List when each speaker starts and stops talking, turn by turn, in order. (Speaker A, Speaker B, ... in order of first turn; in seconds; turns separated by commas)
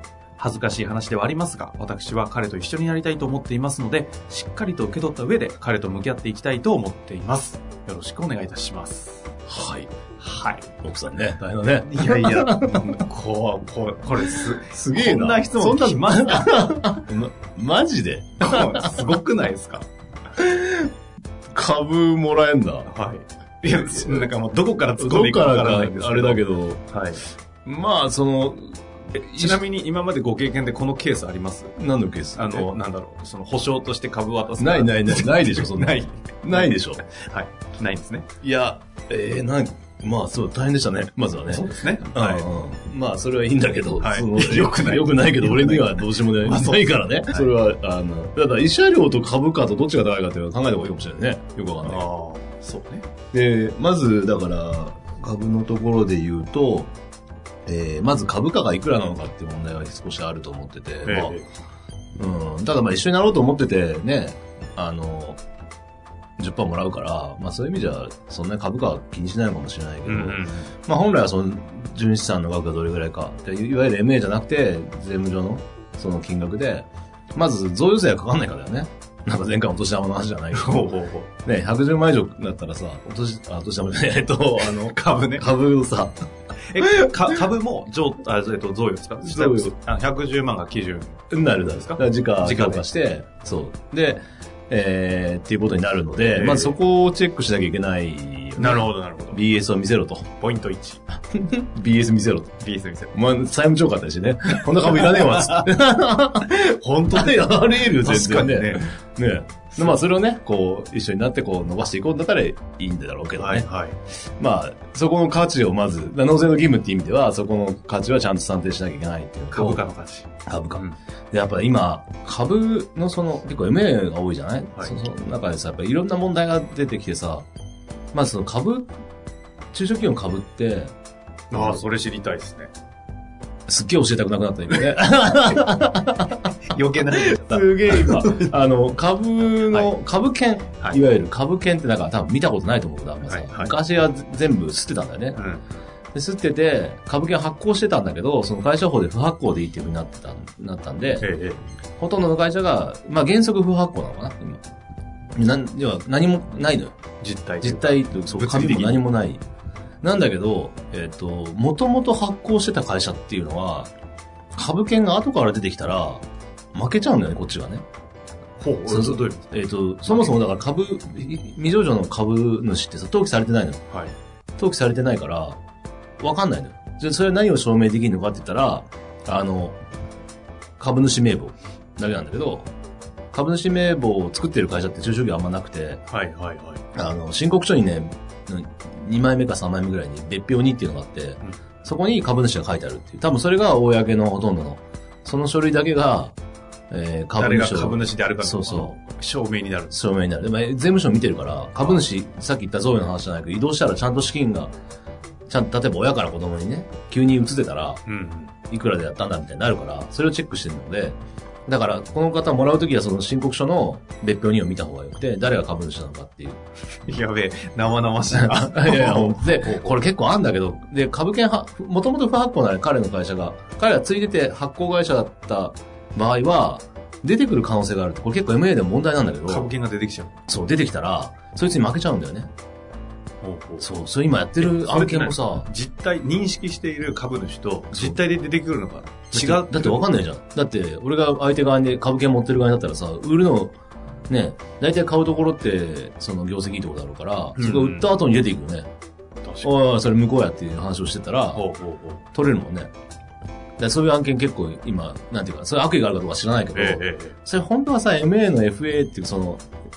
Speaker A: 0.4-9.3, Speaker B: 9.5-9.9, Speaker A: 10.2-10.7, Speaker B: 10.8-13.0, Speaker A: 11.8-16.8, Speaker B: 14.2-19.1, Speaker A: 18.4-19.9, Speaker B: 20.4-20.9, Speaker B: 21.5-22.9, Speaker A: 22.9-27.2, Speaker B: 23.6-24.3, Speaker B: 25.0-26.8, Speaker B: 27.6-29.6, Speaker A: 29.1-31.8, Speaker B: 31.8-32.7, Speaker A: 32.4-38.3, Speaker B: 34.6-37.0, Speaker B: 38.4-52.1, Speaker A: 41.5-42.5, Speaker A: 44.0-47.5, Speaker A: 51.8-53.1, Speaker B: 53.3-56.9, Speaker B: 57.7-61.4, Speaker A: 61.0-61.5, Speaker B: 62.2-65.4, Speaker B: 66.4-80.9, Speaker A: 70.1-70.7, Speaker A: 80.5-81.3, Speaker B: 81.4-86.2, Speaker A: 84.8-85.5, Speaker A: 86.7-92.8, Speaker B: 86.8-87.4, Speaker B: 89.2-89.7, Speaker B: 91.3-100.3, Speaker A: 96.2-96.8, Speaker A: 98.6-99.4, Speaker A: 100.4-101.0, Speaker B: 101.3-102.6, Speaker A: 102.6-103.2, Speaker B: 103.1-113.7, Speaker A: 105.0-105.7, Speaker A: 106.8-108.9, Speaker A: 109.8-110.0, Speaker A: 113.4-114.0, Speaker B: 114.4-119.8, Speaker A: 119.5-120.9, Speaker B: 120.5-127.5, Speaker B: 128.1-128.9, Speaker B: 129.7-130.9, Speaker A: 131.5-132.7, Speaker B: 131.5-131.8, Speaker B: 133.7-136.5, Speaker A: 136.7-138.6, Speaker B: 137.1-145.4, Speaker A: 143.3-143.7, Speaker A: 145.4-145.6, Speaker B: 146.1-151.3, Speaker A: 151.2-151.6, Speaker B: 152.0-154.6, Speaker B: 155.3-156.9, Speaker A: 157.2-159.0, Speaker B: 157.6-159.4, Speaker B: 160.0-163.9, Speaker B: 164.6-167.8, Speaker A: 168.6-169.5, Speaker B: 168.9-173.8, Speaker A: 170.1-170.4, Speaker B: 174.6-175.6, Speaker B: 176.2-179.8, Speaker B: 180.8-182.7, Speaker B: 183.3-186.0, Speaker A: 186.1-186.8, Speaker B: 186.9-196.3, Speaker B: 196.9-198.9, Speaker A: 197.4-200.0, Speaker B: 199.9-204.7, Speaker A: 201.8-202.0, Speaker B: 205.5-208.0, Speaker A: 208.1-208.5, Speaker B: 208.7-216.6, Speaker A: 217.1-220.0, Speaker B: 218.3-229.7, Speaker A: 229.5-230.3, Speaker B: 230.5-232.5, Speaker A: 233.4-233.9, Speaker B: 233.8-235.7, Speaker A: 234.6-240.1, Speaker B: 237.9-238.2, Speaker B: 239.3-243.7, Speaker B: 244.3-248.9, Speaker A: 247.6-248.1, Speaker A: 249.4-249.7, Speaker B: 249.6-251.7, Speaker A: 251.5-252.2, Speaker B: 252.3-252.9, Speaker B: 253.8-259.7, Speaker A: 256.7-257.4